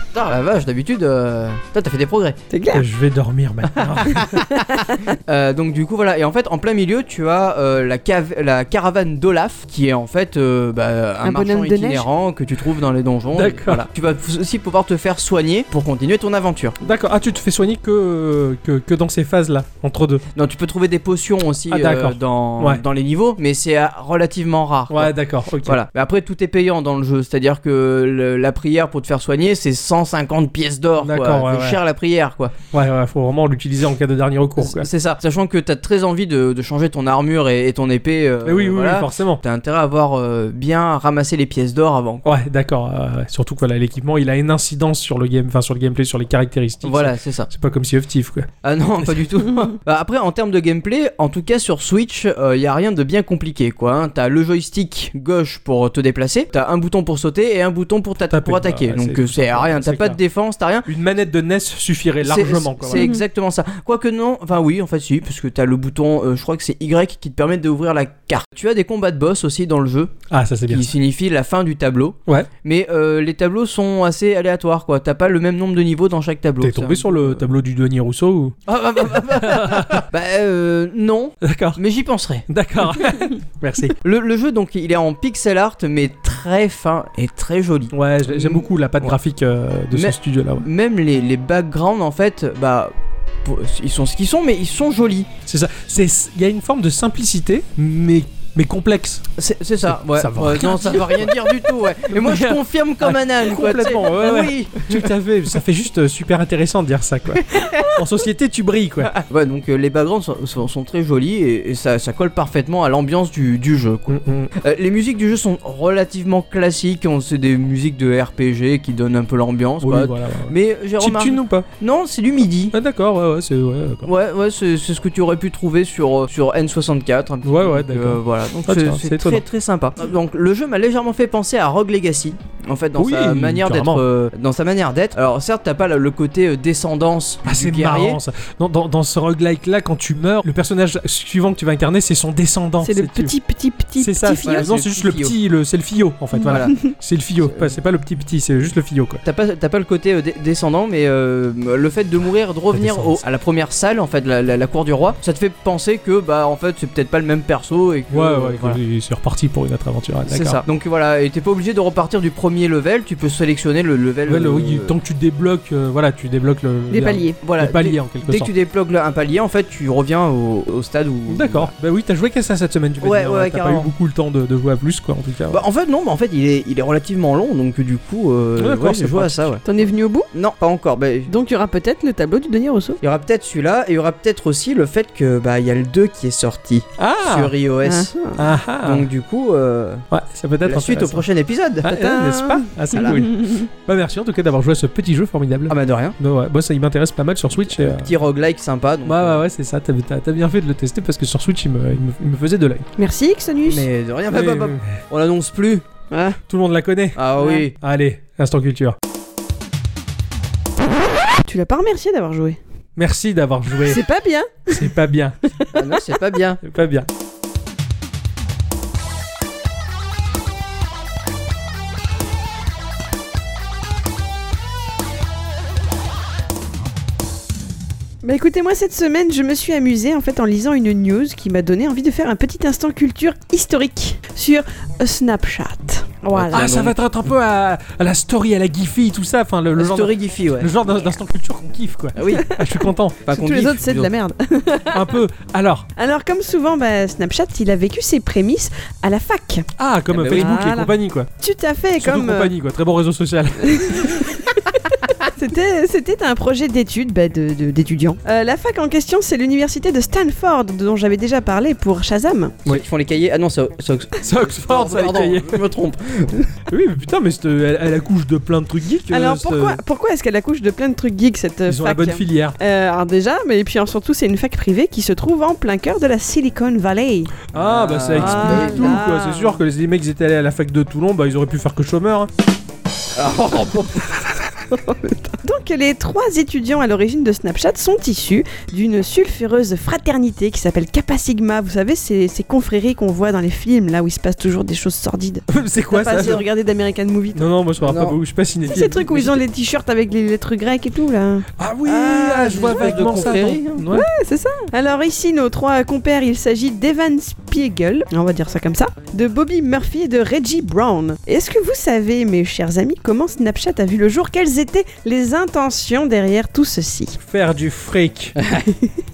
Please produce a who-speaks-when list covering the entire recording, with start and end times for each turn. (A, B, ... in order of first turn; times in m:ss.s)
0:00.1-0:02.4 A
0:02.5-0:02.8 B
0:02.7-0:04.4 C
0:03.8-0:04.2 A
0:04.2-0:05.0 B
0:05.1-0:16.8 A
0:11.2-0:12.0 B
0:13.3-0:13.9 C
0:16.8-0:20.2 C
0:20.3-0:32.5 A
0:21.7-0:22.8 C
0:24.9-0:25.8 C
0:31.0-0:31.8 C
0:32.7-0:34.9 C
0:34.6-0:42.3 A
0:38.4-0:39.4 C
0:42.2-0:48.5 C
0:46.8-0:47.5 A
0:48.6-1:00.9 A
0:58.3-1:00.2 C
1:00.8-1:03.1 C
1:02.2-1:17.4 A
1:02.9-1:03.2 B
1:10.3-1:10.9 C
1:16.6-1:20.0 C
1:18.7-1:22.5 A
1:21.4-1:21.8 C
1:22.5-1:24.0 C
1:24.0-1:29.1 A
1:27.9-1:30.6 C
1:29.9-1:32.9 A
1:33.4-1:35.3 A
1:35.5-1:39.3 C
1:39.4-1:45.1 A
1:39.8-1:41.5 C
1:42.1-1:49.1 C
1:47.6-1:47.8 A
1:49.1-2:02.7 A
1:54.1-1:54.5 C
1:59.8-2:01.6 C
2:02.7-2:04.1 C
2:04.0-2:18.2 A
2:07.4-2:09.4 C
2:13.0-2:14.0 C
2:17.4-2:23.3 C
2:22.8-2:24.6 B
2:24.0-2:29.2 C
2:24.4-2:25.3 A
2:26.3-2:26.9 B
2:26.4-2:26.7 A
2:27.4-2:27.7 A
2:29.2-2:38.8 A
2:32.7-2:33.2 C
2:38.1-2:40.6 C
2:40.3-2:44.9 A
2:44.2-2:48.5 C
2:46.9-2:47.4 B
2:47.4-2:51.7 A
2:51.3-2:55.6 C
2:53.0-2:53.9 A
2:55.5-2:59.6 A
2:58.6-2:59.6 C
2:59.6-3:00.3 B
3:00.3-3:01.3 A
3:01.3-3:03.0 B
3:03.0-3:08.3 A
3:07.0-3:07.5 C
3:07.8-3:08.3 B
3:08.4-3:09.1 C
3:08.8-3:10.0 A
3:10.1-3:11.2 C
3:10.6-3:12.0 A
3:11.8-3:18.1 C
3:11.9-3:13.7 B
3:12.9-3:13.2 A
3:15.7-3:16.2 A
3:17.7-3:19.4 A
3:19.0-3:22.9 C
3:23.0-3:23.8 B
3:23.7-3:25.8 A
3:24.3-3:24.8 C
3:26.1-3:26.4 B
3:26.5-3:29.0 C
3:27.2-3:27.7 A
3:27.4-3:27.6 B
3:31.4-3:32.6 B
3:33.0-3:34.0 C
3:33.8-3:34.9 B
3:34.7-3:35.4 C
3:35.7-3:36.6 A
3:36.6-3:37.1 C
3:48.2-3:56.7 B
3:56.3-3:57.0 A
3:56.5-4:03.2 C
3:59.7-4:00.7 A
4:02.2-4:02.5 A
4:03.2-4:04.1 A
4:03.3-4:05.2 B
4:04.9-4:05.9 C
4:06.0-4:09.7 B
4:09.8-4:11.3 C
4:10.1-4:10.5 A
4:10.3-4:12.5 B
4:12.0-4:14.4 C
4:13.7-4:22.6 B
4:22.6-4:26.5 A
4:24.2-4:25.7 C
4:26.7-4:29.8 C
4:29.1-4:37.3 B
4:31.7-4:32.6 C
4:37.5-4:39.0 A
4:37.5-4:42.3 C
4:38.1-4:39.6 B
4:43.2-4:44.2 A
4:44.7-4:57.5 B
4:55.5-4:56.4 C
4:57.3-4:59.4 C
4:57.8-4:58.2 A
4:58.7-5:01.5 B
5:01.6-5:04.1 C
5:01.8-5:03.9 A
5:03.9-5:17.2 B
5:17.2-5:18.3 C
5:18.4-5:18.7 A